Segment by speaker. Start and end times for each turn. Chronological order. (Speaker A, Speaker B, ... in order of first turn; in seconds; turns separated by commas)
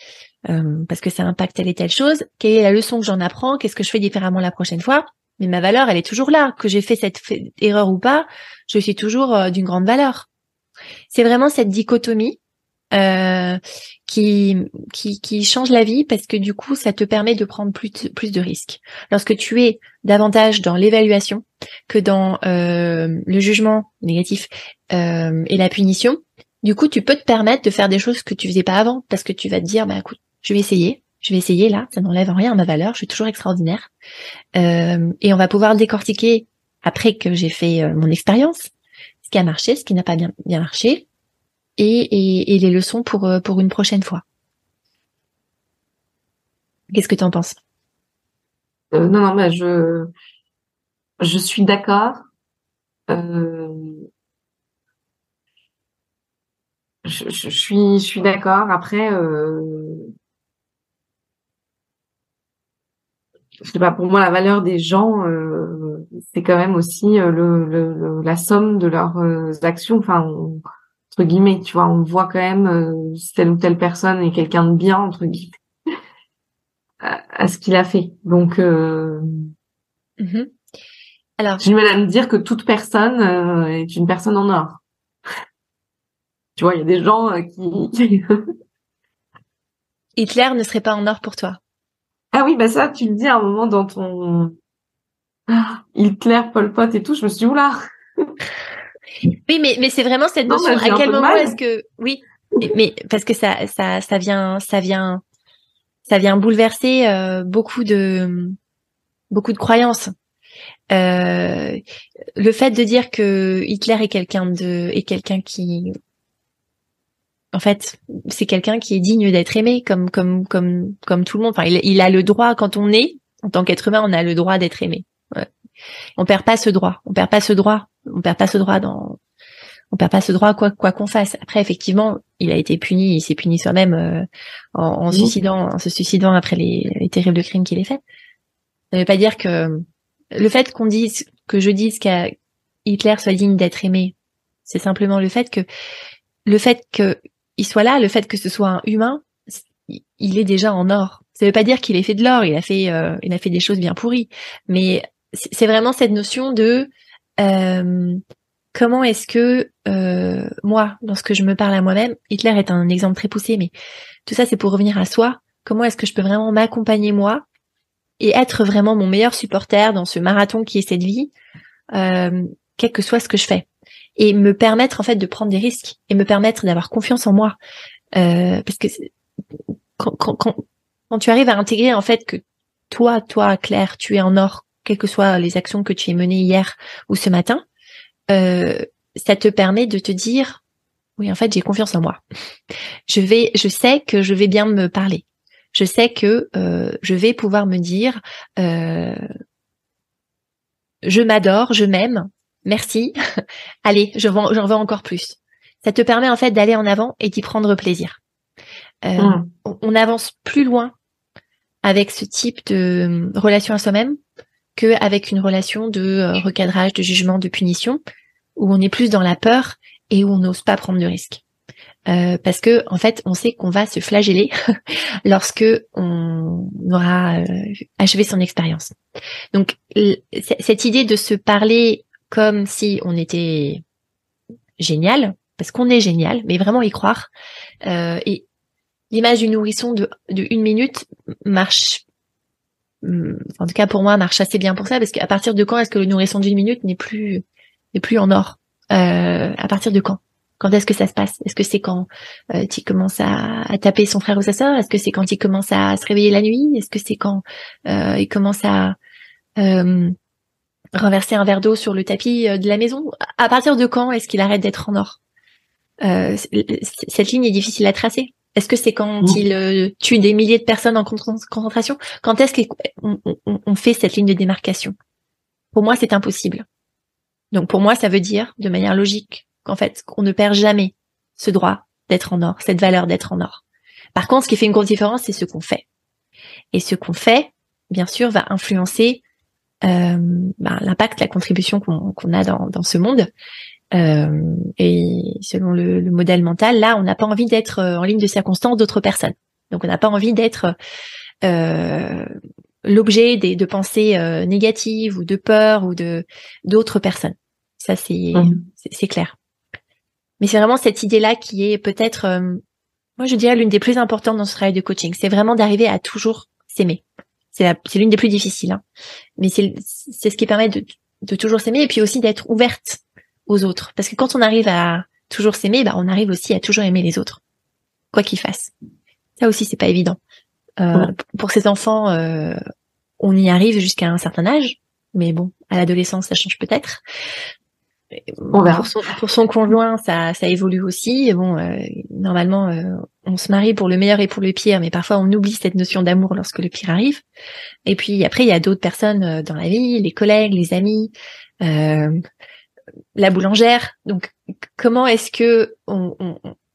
Speaker A: 0.5-10.3, Speaker A: 11.1-12.4, Speaker A: 12.9-33.9, Speaker A: 34.5-38.7, Speaker A: 39.2-41.0, Speaker A: 41.8-44.2, Speaker A: 46.9-47.6, Speaker B: 48.9-50.1, Speaker B: 51.2-52.3, Speaker B: 53.1-54.0, Speaker B: 57.0-60.1, Speaker B: 63.6-75.6, Speaker B: 77.0-79.5, Speaker A: 80.2-80.5, Speaker A: 81.4-81.6, Speaker B: 81.6-84.8, Speaker B: 86.6-88.4, Speaker A: 90.2-91.6, Speaker B: 92.3-94.5, Speaker B: 95.5-98.3, Speaker A: 99.5-105.2, Speaker B: 100.5-101.5, Speaker A: 106.0-108.5, Speaker A: 109.3-110.1, Speaker A: 110.9-111.8, Speaker A: 112.3-115.9, Speaker A: 117.5-125.5, Speaker A: 126.2-129.2, Speaker A: 129.9-138.0, Speaker A: 138.9-139.8, Speaker A: 140.3-142.3, Speaker A: 142.8-144.1, Speaker A: 144.7-145.7, Speaker A: 146.4-158.2, Speaker A: 158.7-163.7, Speaker A: 164.2-167.4, Speaker A: 168.2-171.3, Speaker A: 171.9-177.6, Speaker A: 178.1-179.1, Speaker A: 180.0-187.6, Speaker A: 188.3-190.6, Speaker A: 191.2-192.2, Speaker A: 193.1-199.2, Speaker A: 201.0-203.1, Speaker A: 203.8-208.2, Speaker A: 209.0-210.9, Speaker B: 209.2-209.5, Speaker A: 211.8-214.2, Speaker A: 214.8-218.0, Speaker A: 218.6-221.4, Speaker A: 222.1-224.5, Speaker A: 225.2-228.9, Speaker A: 229.5-233.8, Speaker A: 234.8-237.3, Speaker A: 237.8-238.4, Speaker A: 239.1-242.0, Speaker A: 243.0-247.4, Speaker A: 247.9-259.0, Speaker A: 259.6-260.1, Speaker A: 260.9-265.2, Speaker A: 266.0-274.9, Speaker A: 275.7-276.6, Speaker A: 277.5-283.6, Speaker A: 284.1-285.8, Speaker A: 286.7-289.2, Speaker A: 289.8-293.3, Speaker A: 293.9-300.8, Speaker A: 301.4-302.3, Speaker A: 302.8-309.3, Speaker B: 308.3-308.6, Speaker A: 310.4-312.6, Speaker A: 313.2-318.8, Speaker A: 319.4-327.4, Speaker A: 328.1-328.7, Speaker A: 329.4-330.2, Speaker A: 330.8-332.6, Speaker A: 333.2-337.0, Speaker A: 338.3-347.2, Speaker B: 338.5-338.9, Speaker A: 347.9-351.1, Speaker A: 351.6-352.2, Speaker A: 353.1-356.5